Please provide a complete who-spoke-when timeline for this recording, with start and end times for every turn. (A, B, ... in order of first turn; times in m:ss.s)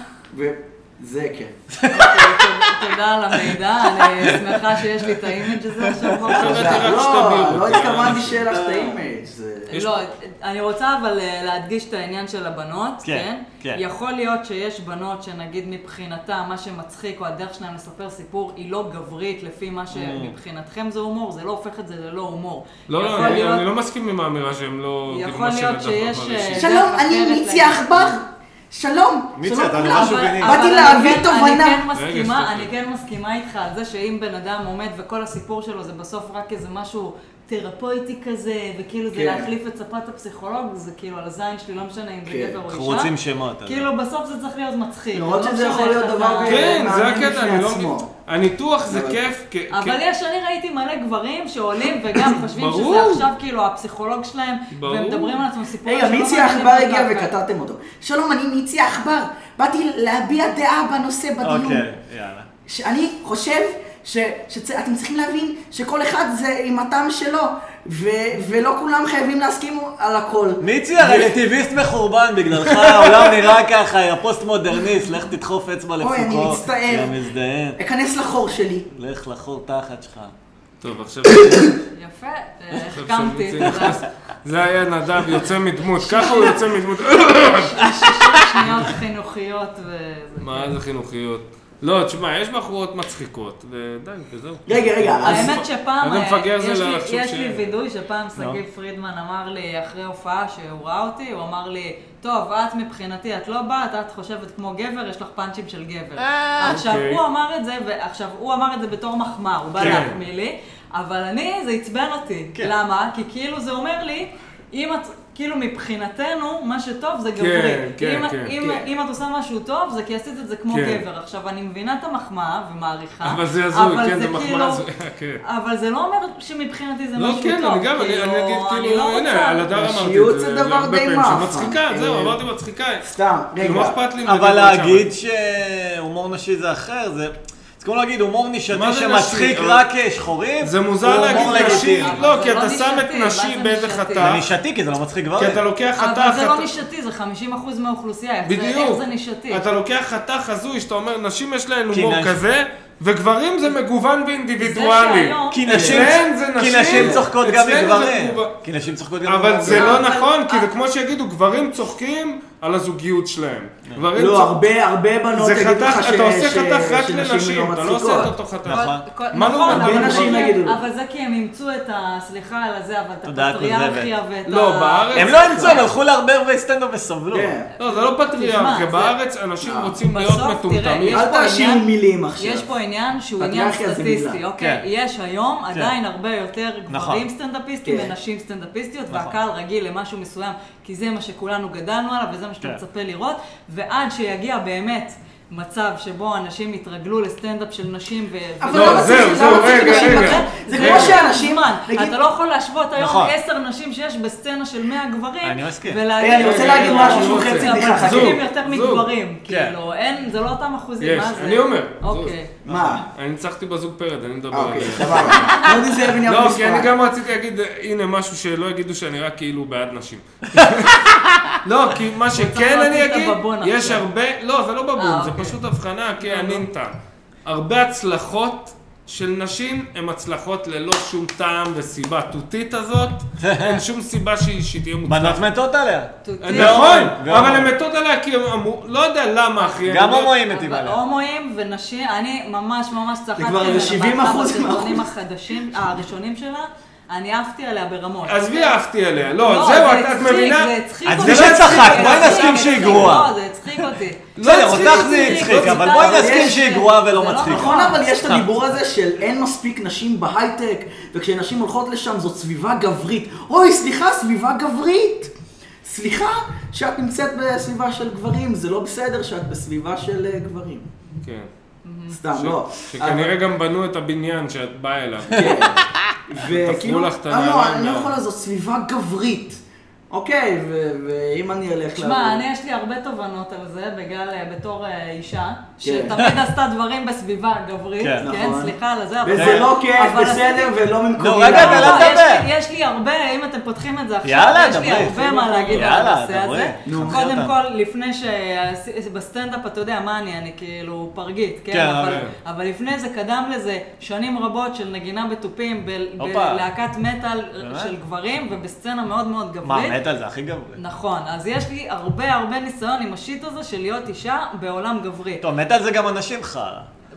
0:00.3-0:01.5 A
0:01.7-0:06.4 B
0:01.9-0:07.0 C
0:06.3-0:08.5 D
0:06.4-0:09.8 A
0:08.5-0:09.0 B
0:09.7-0:23.6 C
0:13.0-0:13.8 B
0:19.9-0:20.3 B
0:22.9-0:26.7 D
0:23.2-0:23.4 A
0:25.1-0:28.1 C
0:26.6-0:31.8 A
0:29.4-0:30.7 B
0:29.8-0:43.1 C
0:31.9-0:32.7 D
0:39.1-0:39.5 A
0:42.2-0:42.6 A
0:42.7-0:43.9 B
0:43.6-0:46.9 C
0:45.1-0:48.1 A
0:46.4-0:50.0 D
0:48.9-0:49.2 A
0:49.7-0:57.3 C
0:52.3-0:53.3 D
0:54.7-0:55.4 D
0:55.8-1:01.9 A
1:01.4-1:02.5 B
1:02.6-1:11.3 A
1:10.6-1:17.8 B
1:12.6-1:13.4 D
1:16.0-1:17.2 A
1:17.8-1:18.9 A
1:18.9-1:20.3 B
1:20.8-1:21.8 D
1:21.9-1:24.0 C
1:22.8-1:27.9 D
1:26.0-1:26.6 C
1:27.3-1:30.7 C
1:28.0-1:28.7 B
1:30.4-1:37.7 D
1:34.7-1:35.6 A
1:35.2-2:04.8 C
1:46.2-1:46.8 B
1:46.8-1:47.2 D
1:49.8-1:50.0 B
1:49.8-1:50.2 D
1:57.4-1:58.5 D
2:00.7-2:01.0 D
2:03.2-2:05.4 D
2:05.4-2:09.7 C
2:07.2-2:13.0 D
2:09.7-2:12.4 A
2:13.0-2:14.0 A
2:13.6-2:15.1 D
2:14.2-2:22.2 B
2:18.7-2:19.8 D
2:20.6-2:24.4 D
2:21.1-2:21.6 A
2:21.2-2:24.3 C
2:24.2-2:25.6 B
2:25.4-2:26.7 D
2:26.0-2:29.6 C
2:28.4-2:38.5 D
2:31.9-2:32.4 B
2:34.6-2:35.6 C
2:35.5-2:40.1 B
2:35.7-2:36.2 A
2:36.9-2:37.2 A
2:39.2-2:44.6 D
2:39.7-2:40.7 C
2:44.1-2:48.3 A
2:45.3-2:50.5 D
2:48.6-2:49.0 B
2:48.7-2:55.8 C
2:49.6-2:50.8 A
2:53.2-2:54.1 B
2:54.5-2:55.8 D
2:55.1-2:57.6 B
2:55.4-2:55.7 A
2:57.3-2:57.7 A
2:57.8-2:59.1 C
2:57.8-3:01.2 D
2:59.6-2:59.9 A
3:00.1-3:01.8 C
3:01.1-3:02.7 A
3:02.4-3:32.5 C
3:03.4-3:04.4 A
3:04.6-3:04.8 B
3:06.9-3:07.2 B
3:07.8-3:08.1 A
3:09.1-3:09.4 B
3:18.6-3:22.1 A
3:18.7-3:21.2 D
3:23.0-3:23.3 B
3:25.4-3:26.0 B
3:26.2-3:28.4 A
3:26.4-3:29.1 D
3:29.5-3:29.8 B
3:31.0-3:32.3 D
3:32.6-3:33.1 A
3:32.7-3:33.0 B
3:33.1-3:41.0 D
3:34.5-3:36.9 A
3:40.6-3:41.5 B
3:41.6-3:55.4 D
3:42.3-3:44.0 C
3:45.0-3:45.6 C
3:46.2-3:46.6 C
3:53.4-3:53.8 B
3:55.0-3:57.7 B
3:56.2-3:57.0 C
3:56.4-4:00.4 D
3:59.8-4:01.0 B
4:00.4-4:08.8 C
4:03.4-4:05.1 A
4:08.3-4:13.1 D
4:09.4-4:18.1 C
4:11.0-4:13.3 B
4:14.4-4:15.8 D
4:14.4-4:18.5 B
4:15.9-4:16.8 A
4:17.4-4:25.3 A
4:25.8-4:30.9 A
4:31.2-4:31.5 D
4:31.8-4:32.2 C
4:32.1-4:33.3 A
4:32.3-4:35.8 D
4:35.3-4:36.1 B
4:35.3-4:42.4 A
4:36.4-4:38.2 D
4:42.0-5:10.0 C
4:45.8-4:46.2 A
4:48.0-4:48.3 B
4:48.2-4:52.1 A
4:49.3-4:49.7 B
4:51.2-4:52.5 B
4:54.2-4:57.5 B
4:56.8-4:57.2 A
5:01.7-5:02.2 B
5:02.0-5:02.3 D
5:06.2-5:06.6 B
5:07.6-5:07.9 B
5:09.6-5:10.8 B
5:10.8-5:15.4 C
5:15.4-5:16.9 B